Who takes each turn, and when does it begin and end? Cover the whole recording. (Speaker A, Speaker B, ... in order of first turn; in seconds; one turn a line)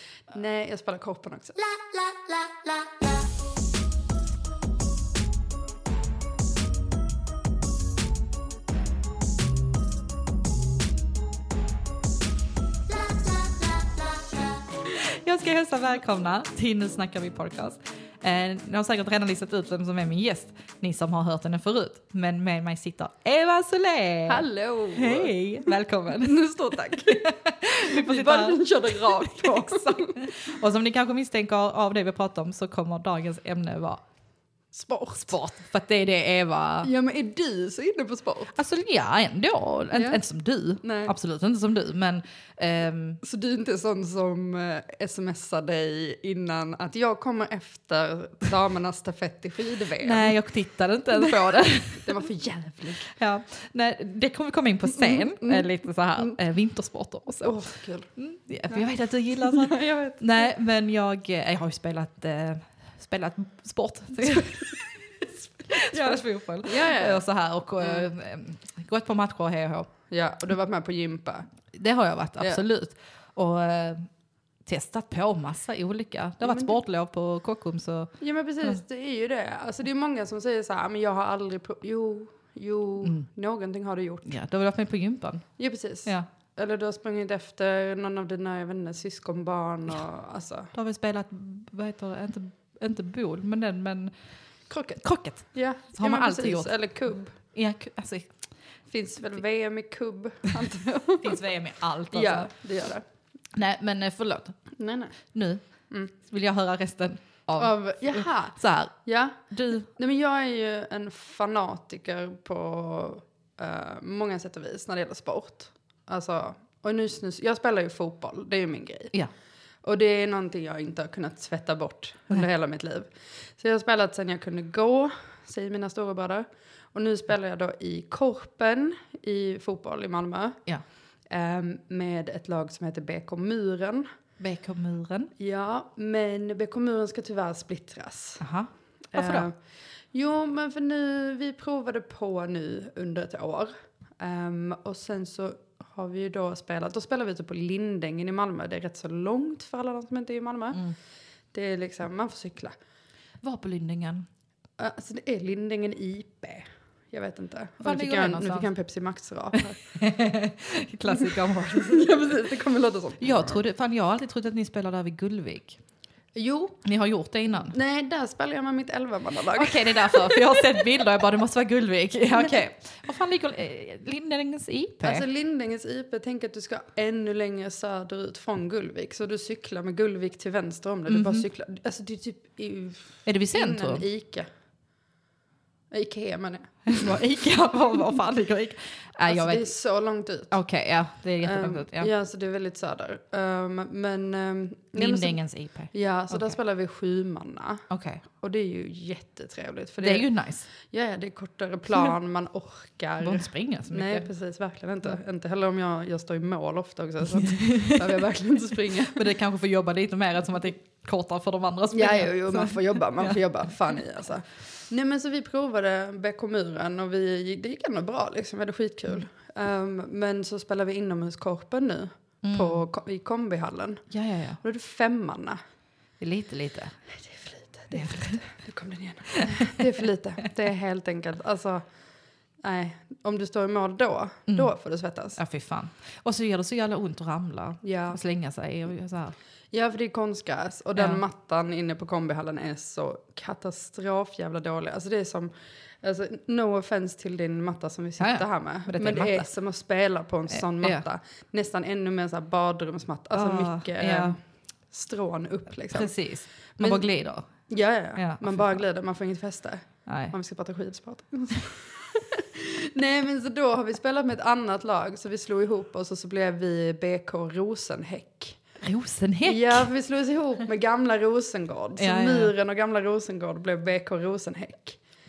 Speaker A: 0.3-2.4
Speaker B: 13.3-14.0
Speaker B: 14.7-34.0
Speaker A: 24.3-25.7
Speaker A: 26.2-30.4
Speaker A: 34.8-35.3
Speaker B: 35.1-36.9
Speaker A: 36.8-38.5
Speaker B: 38.5-43.2
Speaker A: 39.9-40.2
Speaker A: 40.8-41.1
Speaker A: 43.2-50.4
Speaker B: 50.0-52.1
Speaker A: 51.1-53.1
Speaker B: 53.0-57.6
Speaker A: 55.0-55.6
Speaker A: 57.4-58.1
Speaker B: 58.1-69.9
Speaker A: 59.3-60.5
Speaker A: 65.9-67.2
Speaker A: 70.1-71.5
Speaker B: 71.7-74.1
Speaker B: 74.6-78.1
Speaker A: 76.4-76.7
Speaker A: 78.2-84.3
Speaker B: 84.2-85.5
Speaker A: 85.6-90.7
Speaker B: 90.7-94.1
Speaker A: 94.7-97.3
Speaker B: 95.0-96.8
Speaker B: 97.4-98.3
Speaker A: 98.8-101.4
Speaker B: 101.2-102.5
Speaker A: 102.1-103.0
Speaker B: 103.5-104.6
Speaker A: 104.8-105.2
Speaker B: 105.2-109.9
Speaker A: 107.5-119.1
Speaker A: 119.8-130.6
Speaker A: 131.3-134.1
Speaker B: 134.4-135.3
Speaker A: 135.4-138.4
Speaker B: 138.4-139.5
Speaker A: 139.1-139.6
Speaker A: 140.1-150.8
Speaker A: 151.5-152.7
Speaker B: 153.4-154.3
Speaker A: 154.8-160.0
Speaker B: 157.8-158.7
Speaker B: 159.9-162.2
Speaker A: 161.1-163.6
Speaker B: 163.2-165.8
Speaker A: 166.3-166.8
Speaker B: 166.8-167.7
Speaker A: 167.7-170.8
Speaker B: 169.5-175.2
Speaker A: 175.0-184.5
Speaker B: 181.1-181.4
Speaker B: 183.2-184.0
Speaker A: 185.9-187.1
Speaker B: 186.9-189.7
Speaker A: 189.3-190.5
Speaker B: 190.5-192.1
Speaker A: 191.4-195.4
Speaker B: 194.9-196.6
Speaker A: 195.9-197.8
Speaker B: 197.9-198.2
Speaker A: 198.4-200.3
Speaker B: 200.0-200.7
Speaker A: 200.8-209.2
Speaker B: 203.2-204.3
Speaker B: 207.4-208.1
Speaker B: 209.1-213.4
Speaker A: 211.9-224.1
Speaker B: 222.4-222.8
Speaker B: 224.1-224.6
Speaker A: 224.6-225.6
Speaker B: 226.2-226.9
Speaker A: 227.1-231.8
Speaker B: 227.9-228.4
Speaker B: 229.4-229.7
Speaker A: 232.6-235.4
Speaker B: 235.3-239.3
Speaker A: 237.8-238.2
Speaker A: 239.7-254.4
Speaker B: 248.2-249.4
Speaker B: 250.5-251.0
Speaker B: 253.3-254.3
Speaker A: 254.9-256.1
Speaker B: 255.9-257.4
Speaker A: 256.8-257.1
Speaker A: 257.7-268.6
Speaker B: 258.1-258.8
Speaker B: 260.1-260.3
Speaker B: 268.8-269.9
Speaker A: 269.4-275.0
Speaker B: 272.0-272.5